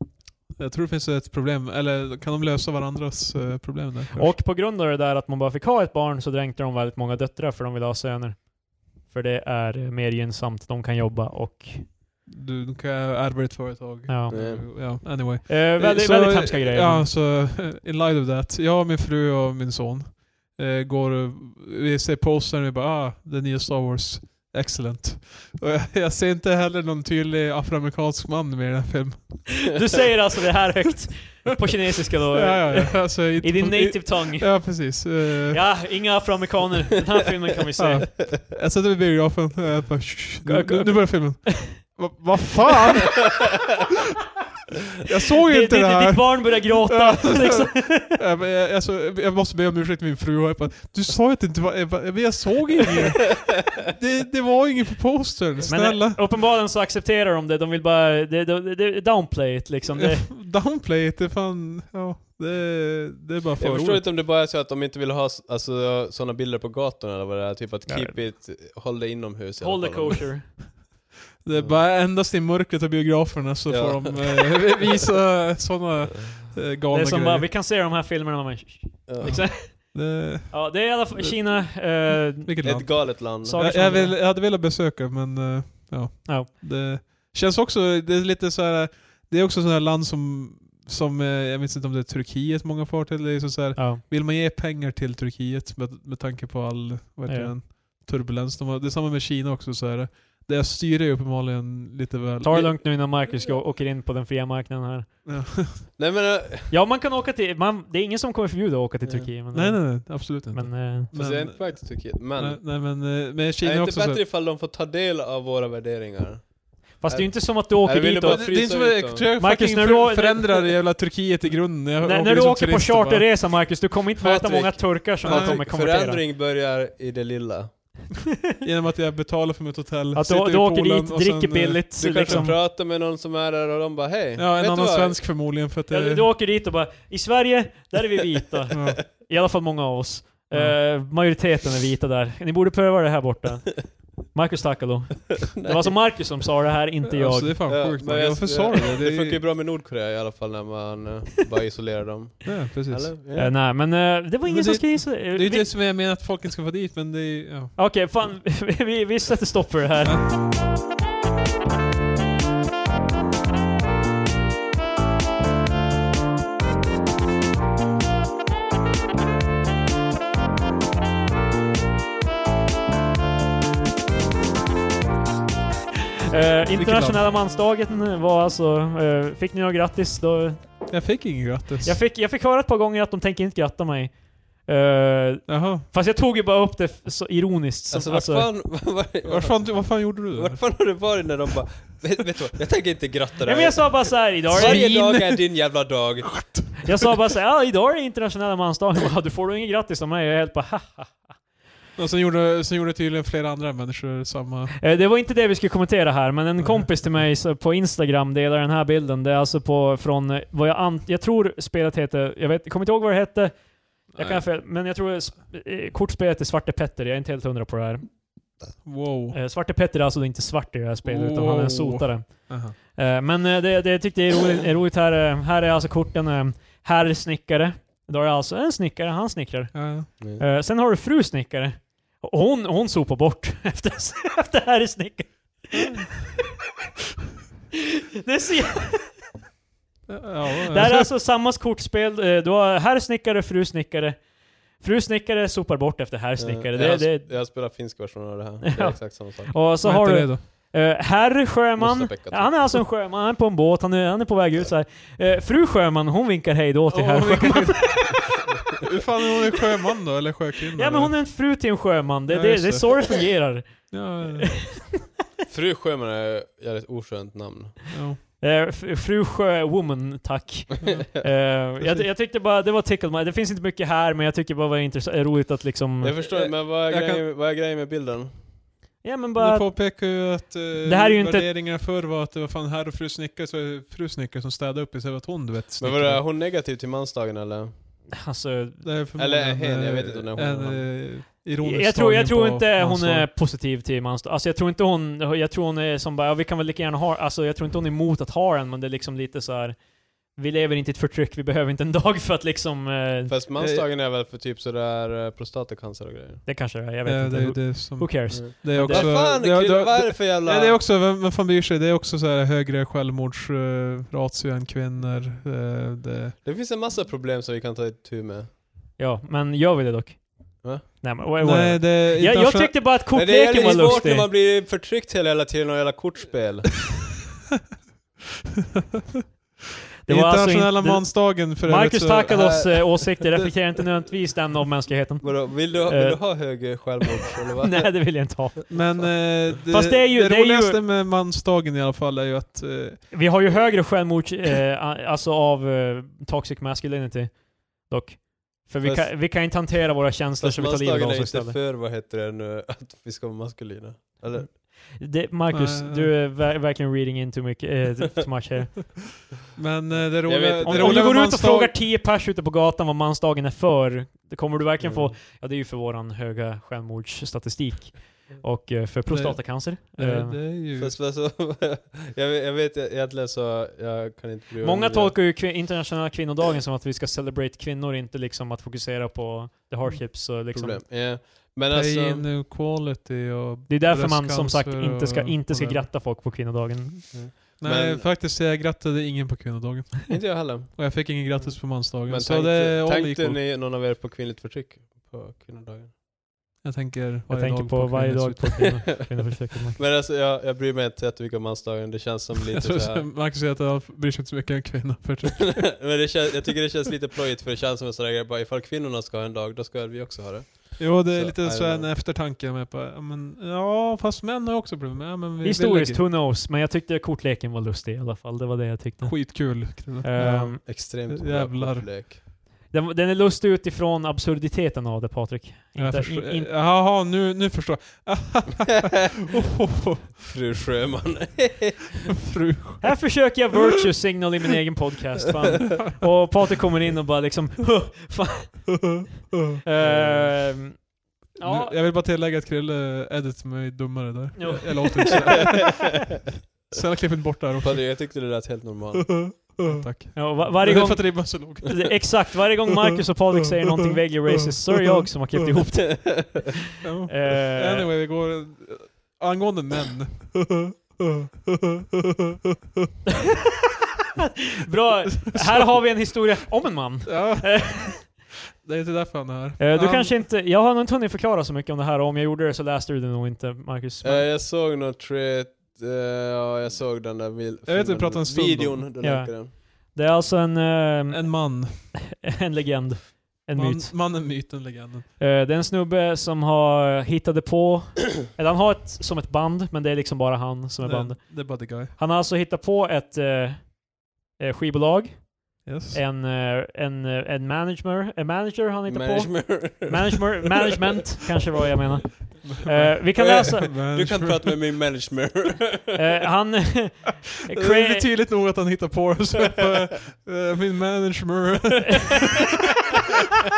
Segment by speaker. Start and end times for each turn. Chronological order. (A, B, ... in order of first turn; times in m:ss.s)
0:00.6-0:04.4 A
0:04.1-0:12.0 B
0:12.2-0:29.7 A
0:14.1-0:17.1 B
0:14.3-0:14.7 C
0:29.6-0:38.2 B
0:32.3-0:35.7 A
0:37.8-0:43.5 A
0:40.4-0:41.8 B
0:45.0-0:56.2 A
0:45.4-0:48.2 B
0:55.7-1:00.3 B
1:00.0-1:04.1 A
1:03.6-1:10.3 C
1:07.9-1:08.2 B
1:09.6-1:10.6 B
1:11.4-1:17.5 A
1:11.5-1:11.8 C
1:13.7-1:14.4 C
1:16.9-1:24.2 B
1:19.1-1:19.6 C
1:19.2-1:20.6 A
1:22.4-1:42.8 A
1:22.6-1:23.6 C
1:33.8-1:34.0 B
1:37.3-1:37.5 B
1:42.4-1:45.1 B
1:45.2-1:45.8 A
1:46.0-1:46.7 C
1:46.7-1:51.1 B
1:49.5-1:54.2 A
1:51.1-1:52.6 C
1:53.6-1:59.3 C
1:57.0-1:58.8 B
1:58.2-2:03.3 A
1:59.4-2:00.7 B
2:02.0-2:06.2 B
2:04.2-2:07.7 C
2:05.2-2:05.6 A
2:08.6-2:12.5 A
2:10.1-2:12.6 B
2:12.0-2:15.3 C
2:14.4-2:16.2 A
2:15.9-2:27.7 B
2:18.7-2:19.0 A
2:20.5-2:20.8 A
2:25.5-2:26.0 C
2:27.1-2:29.4 A
2:27.6-2:33.5 C
2:32.4-2:33.1 A
2:33.3-2:35.8 B
2:34.4-2:37.8 A
2:37.7-2:40.4 B
2:56.3-3:00.9 B
2:56.7-2:57.2 A
3:00.9-3:01.9 A
3:01.8-3:08.5 B
3:05.5-3:05.8 A
3:07.9-3:16.7 C
3:09.2-3:10.6 A
3:13.4-3:15.4 B
3:14.5-3:15.1 A
3:16.3-3:16.9 A
3:16.8-3:21.4 B
3:22.0-3:24.7 A
3:24.8-3:38.2 B
3:26.6-3:27.2 A
3:34.1-3:34.4 A
3:38.8-3:39.4 A
3:39.3-3:56.0 B
3:41.0-3:42.8 A
3:49.7-3:50.1 A
3:55.7-3:56.0 A
3:58.1-3:59.3 B
4:00.1-4:01.1 A
4:00.7-4:07.8 B
4:06.4-4:09.5 C
4:08.6-4:18.2 B
4:09.8-4:10.4 A
4:11.8-4:12.8 C
4:16.9-4:18.2 A
4:18.8-4:21.2 A
4:20.7-4:24.9 B
4:22.3-4:24.7 A
4:25.5-4:27.9 C
4:27.9-4:28.2 A
4:28.4-4:36.3 B
4:36.0-4:38.3 C
4:36.9-4:37.2 A
4:39.0-4:40.0 B
4:39.4-4:46.2 A
4:40.8-4:41.5 B
4:45.8-4:47.7 C
4:48.1-4:48.8 B
4:48.8-4:53.3 A
4:49.2-4:50.9 C
4:51.6-5:03.3 B
5:03.3-5:06.4 C
5:03.6-5:03.8 A
5:06.4-5:09.2 B
5:07.0-5:16.4 A
5:08.3-5:10.8 C
5:16.4-5:18.5 C
5:19.0-5:24.3 B
5:21.4-5:22.8 A
5:23.1-5:26.9 C
5:30.0-5:40.8 B
5:30.1-5:32.4 A
5:32.3-5:33.4 C
5:35.2-5:38.0 C
5:38.7-5:43.1 A
5:43.1-5:51.6 B
5:48.8-5:49.1 C
5:50.4-5:54.6 C
5:54.5-5:59.2 B
5:55.5-5:56.1 A
5:59.5-6:01.8 A
5:59.9-6:01.2 C
6:00.4-6:10.4 B
6:04.8-6:05.2 C
6:09.1-6:11.0 A
6:10.7-6:15.2 C
6:14.6-6:20.8 B
6:20.5-6:22.3 C
6:21.7-6:25.9 A
6:23.7-6:27.2 B
6:27.1-6:28.1 C
6:27.6-6:33.4 A
6:30.1-6:35.9 C
6:36.6-6:38.8 A
6:37.3-6:39.8 B
6:39.7-6:43.0 C
6:42.4-6:45.9 A
6:45.4-6:51.9 C
6:50.8-6:56.0 A
6:55.4-7:00.6 B
6:59.0-7:01.9 A
7:00.4-7:02.2 C
7:02.7-7:06.5 B
7:05.7-7:10.1 A
7:10.3-7:12.1 C
7:12.3-7:13.0 A
7:12.8-7:21.7 B
7:18.9-7:19.6 A
7:19.8-7:20.5 C
7:21.4-7:26.2 A
7:24.4-7:25.7 B
7:26.7-7:28.3 A
7:27.6-7:29.6 C
7:29.1-7:32.4 A
7:30.1-7:36.6 B
7:32.9-7:35.0 A
7:35.8-7:36.4 C
7:36.8-7:41.8 A
7:37.1-7:37.9 B
7:44.6-7:48.0 B
7:45.3-7:45.7 A
7:47.0-7:50.2 A
7:49.6-7:54.3 B
7:54.0-7:59.5 C
7:57.6-7:58.8 A
7:59.0-8:04.1 B
8:01.1-8:01.9 A
8:03.5-8:05.1 A
8:05.2-8:23.9 B
8:10.8-8:11.9 A
8:15.6-8:16.0 A
8:18.9-8:20.7 C
8:22.4-8:24.6 A
8:23.2-8:26.0 C
8:25.9-8:28.1 B
8:27.5-8:33.0 A